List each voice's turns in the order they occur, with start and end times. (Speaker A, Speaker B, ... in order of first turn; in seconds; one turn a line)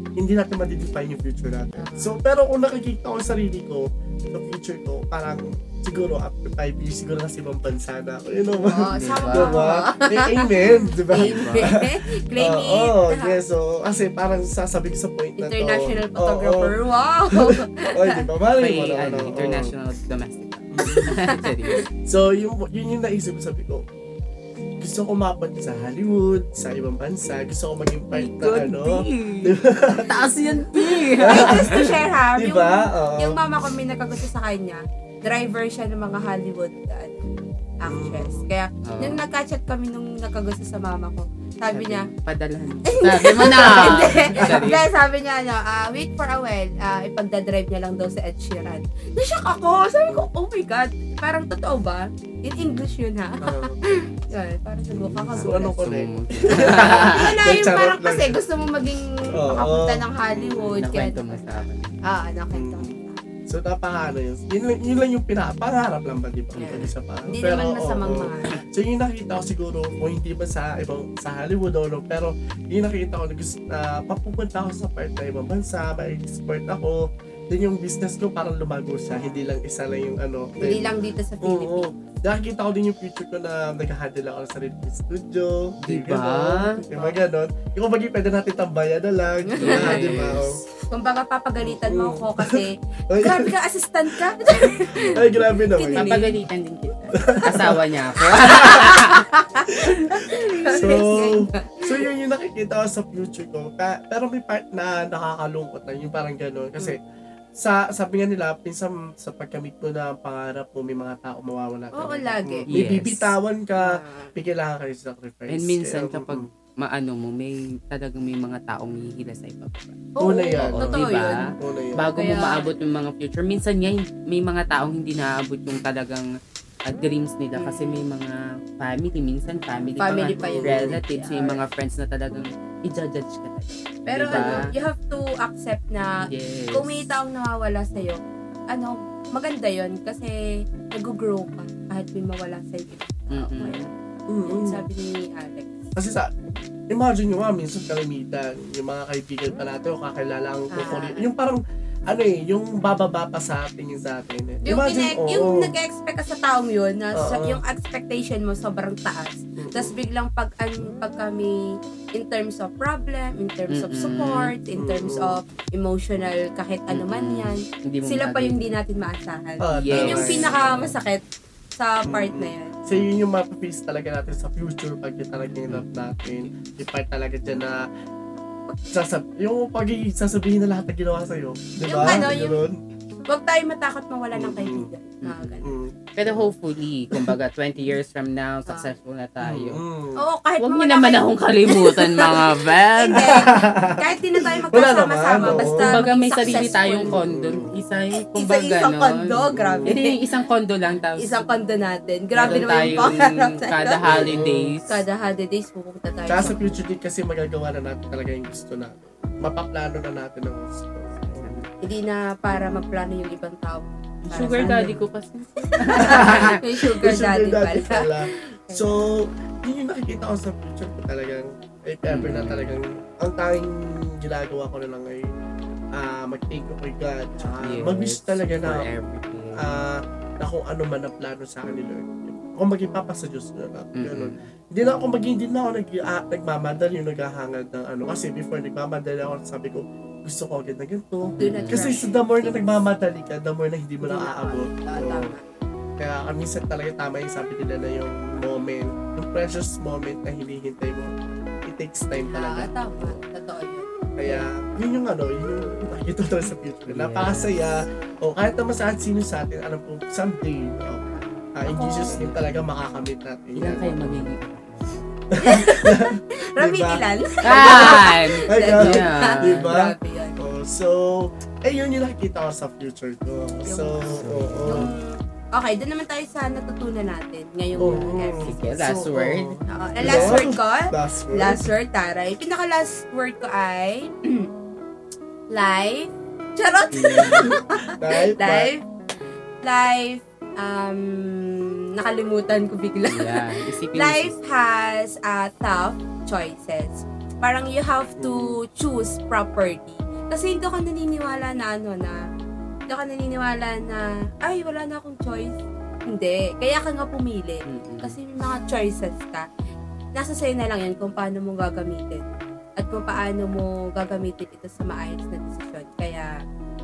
Speaker A: 0.2-11.8
Speaker B: 1.8-2.2
Speaker B: 8.7-13.4
Speaker C: 8.9-9.7
Speaker C: 11.1-11.7
Speaker A: 12.4-16.7
Speaker B: 15.4-18.2
Speaker A: 17.4-19.7
Speaker C: 18.6-21.8
Speaker A: 20.7-21.2
Speaker B: 20.8-21.8
Speaker A: 22.1-23.8
Speaker A: 24.8-30.1
Speaker C: 28.1-31.9
Speaker B: 30.5-37.2
Speaker A: 31.2-31.8
Speaker A: 32.4-33.4
Speaker B: 37.8-42.1
Speaker A: 37.9-38.5
Speaker C: 38.9-39.3
Speaker C: 41.7-44.9
Speaker B: 42.9-55.8
Speaker A: 43.5-44.7
Speaker C: 52.5-52.9
Speaker A: 53.4-53.8
Speaker C: 54.9-57.3
Speaker A: 55.3-58.4
Speaker B: 56.5-63.2
Speaker A: 59.3-60.7
Speaker C: 59.3-59.6
Speaker C: 60.6-62.0
Speaker A: 62.5-62.9
Speaker A: 63.5-80.9
Speaker C: 66.5-66.9
Speaker B: 66.6-68.6
Speaker B: 79.1-79.5
Speaker B: 80.6-81.9
Speaker A: 81.4-90.6
Speaker C: 85.8-86.8
Speaker B: 86.8-87.2
Speaker B: 89.5-90.2
Speaker C: 89.6-90.6
Speaker B: 90.9-96.4
Speaker A: 91.6-93.5
Speaker A: 95.1-96.3
Speaker C: 95.9-99.3
Speaker A: 97.2-97.9
Speaker B: 97.4-101.9
Speaker A: 100.7-107.0
Speaker A: 107.5-116.5
Speaker B: 111.9-112.7
Speaker C: 112.7-113.3
Speaker B: 113.8-114.3
Speaker C: 115.5-120.0
Speaker B: 120.2-121.5
Speaker A: 120.2-122.1
Speaker C: 120.6-121.4
Speaker C: 122.0-126.3
Speaker B: 122.2-122.7
Speaker C: 126.9-134.7
Speaker B: 127.5-128.1
Speaker B: 130.0-131.7
Speaker A: 130.4-131.0
Speaker B: 134.1-140.4
Speaker A: 134.3-134.7
Speaker C: 136.2-137.1
Speaker B: 140.9-143.9
Speaker C: 143.3-143.9
Speaker A: 144.3-144.8
Speaker B: 144.5-145.8
Speaker A: 146.0-146.3
Speaker A: 146.9-155.7
Speaker B: 150.7-151.3
Speaker B: 154.7-161.6
Speaker A: 157.2-157.6
Speaker A: 159.6-159.9
Speaker B: 162.2-171.2
Speaker C: 163.7-164.5
Speaker A: 164.8-165.4
Speaker C: 166.9-168.7
Speaker A: 169.6-170.8
Speaker C: 169.8-170.9
Speaker B: 171.8-172.8
Speaker A: 172.1-177.8
Speaker A: 178.9-182.8
Speaker B: 181.8-182.7
Speaker B: 183.3-185.7
Speaker A: 184.3-184.9
Speaker C: 185.2-185.7
Speaker A: 185.6-186.5
Speaker C: 186.2-189.8
Speaker B: 188.7-188.9
Speaker A: 189.4-190.2
Speaker B: 190.2-197.2
Speaker C: 190.6-193.4
Speaker A: 193.1-194.0
Speaker A: 194.7-196.0
Speaker C: 195.3-201.4
Speaker A: 197.1-197.7
Speaker B: 198.3-200.2
Speaker A: 199.5-200.0
Speaker B: 201.2-204.3
Speaker C: 202.4-205.0
Speaker A: 202.4-203.1
Speaker A: 204.1-204.7
Speaker B: 204.9-206.8
Speaker A: 206.3-211.6
Speaker C: 211.3-211.7
Speaker B: 211.8-215.0
Speaker C: 214.3-216.6
Speaker B: 215.8-219.1
Speaker A: 216.0-225.3
Speaker C: 222.1-222.8
Speaker A: 225.9-228.9
Speaker B: 227.3-227.6
Speaker C: 227.6-229.8
Speaker A: 229.6-245.3
Speaker C: 234.0-234.5
Speaker B: 241.4-242.6
Speaker C: 241.4-241.9
Speaker B: 244.0-245.4
Speaker A: 246.0-251.1
Speaker A: 251.7-253.2
Speaker B: 252.3-254.5
Speaker A: 254.2-264.3
Speaker C: 256.9-257.7
Speaker B: 261.1-262.3
Speaker C: 262.1-262.4
Speaker C: 263.6-265.1
Speaker B: 265.4-270.4
Speaker A: 265.5-274.9
Speaker C: 267.4-269.8
Speaker B: 273.7-274.1
Speaker C: 274.1-274.9
Speaker B: 274.6-278.7
Speaker C: 277.7-280.4
Speaker A: 277.8-281.7
Speaker B: 279.7-284.5
Speaker B: 285.5-288.8
Speaker C: 286.9-287.5
Speaker A: 287.9-288.7
Speaker B: 289.6-293.4
Speaker C: 293.0-294.4
Speaker B: 293.9-302.2
Speaker A: 298.2-298.6
Speaker B: 302.9-309.4
Speaker C: 307.7-308.2
Speaker B: 310.2-316.4